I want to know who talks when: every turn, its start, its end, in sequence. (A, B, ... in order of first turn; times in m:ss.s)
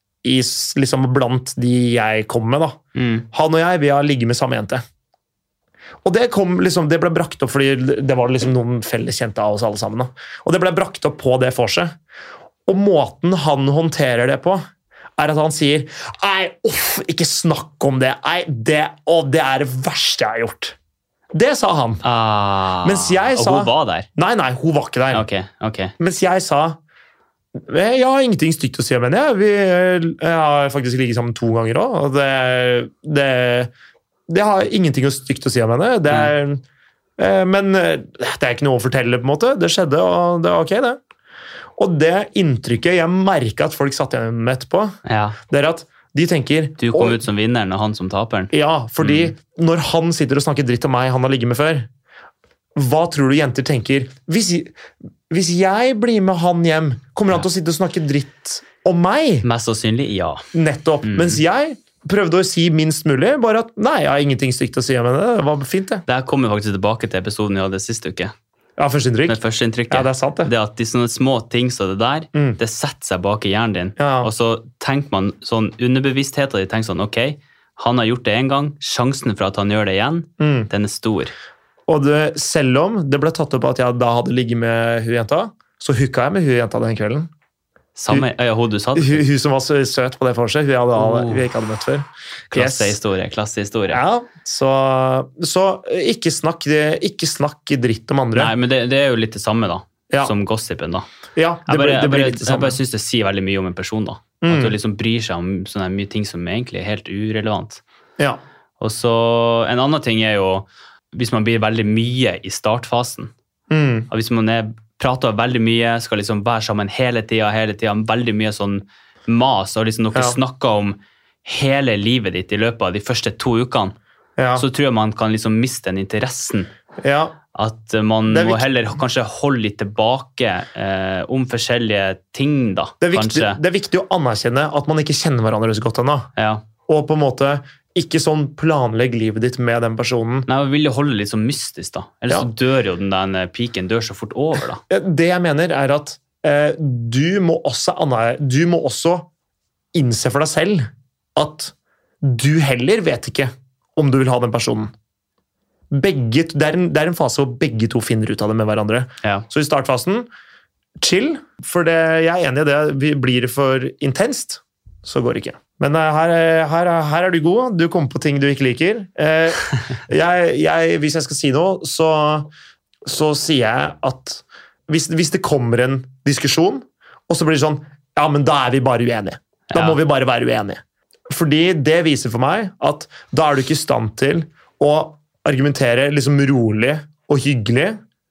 0:00.2-0:02.8 A
0:03.0-0:03.2 B
0:03.3-0:04.8 A
0:06.0-0:12.0 A
0:12.7-0:14.6 A
0:15.2-0:20.8 A
0:21.3-0:22.0 A
0:22.0-0:24.1 B
0:22.8-0:25.3 A
0:25.1-0:25.9 B
0:26.0-0:26.8 A
0:27.5-0:33.7 A
0:34.3-0:36.6 A
0:37.2-0:41.0 A
0:41.8-0:45.0 A
0:45.0-0:45.4 B
0:45.5-0:47.2 A
0:46.8-0:49.3 B
0:48.5-0:51.9 A
0:52.8-0:54.7 A
0:55.3-0:59.4 A
0:59.4-1:00.4 B
1:00.5-1:06.0 A
1:01.0-1:01.4 B
1:06.1-1:08.3 B
1:08.8-1:09.4 A
1:09.3-1:21.3 B
1:09.9-1:10.5 A
1:14.0-1:14.3 A
1:20.4-1:20.7 A
1:21.9-1:27.3 A
1:28.0-1:29.2 B
1:29.0-1:33.0 A
1:30.9-1:31.4 B
1:32.5-1:34.0 B
1:33.9-1:38.5 A
1:38.3-1:41.1 B
1:41.4-1:42.8 A
1:41.7-1:47.8 B
1:44.4-1:44.7 A
1:48.8-1:53.3 B
1:53.7-1:54.1 A
1:54.1-2:04.0 B
2:04.4-2:04.6 A
2:04.6-2:06.7 B
2:07.0-2:07.3 A
2:07.5-2:13.6 B
2:08.3-2:08.6 A
2:13.0-2:16.3 A
2:16.4-2:16.6 B
2:16.9-2:20.5 A
2:20.5-2:24.8 B
2:24.9-2:29.3 A
2:29.9-2:34.9 A
2:35.9-2:40.3 A
2:41.0-2:52.5 A
2:53.0-3:08.0 A
2:59.7-3:00.0 B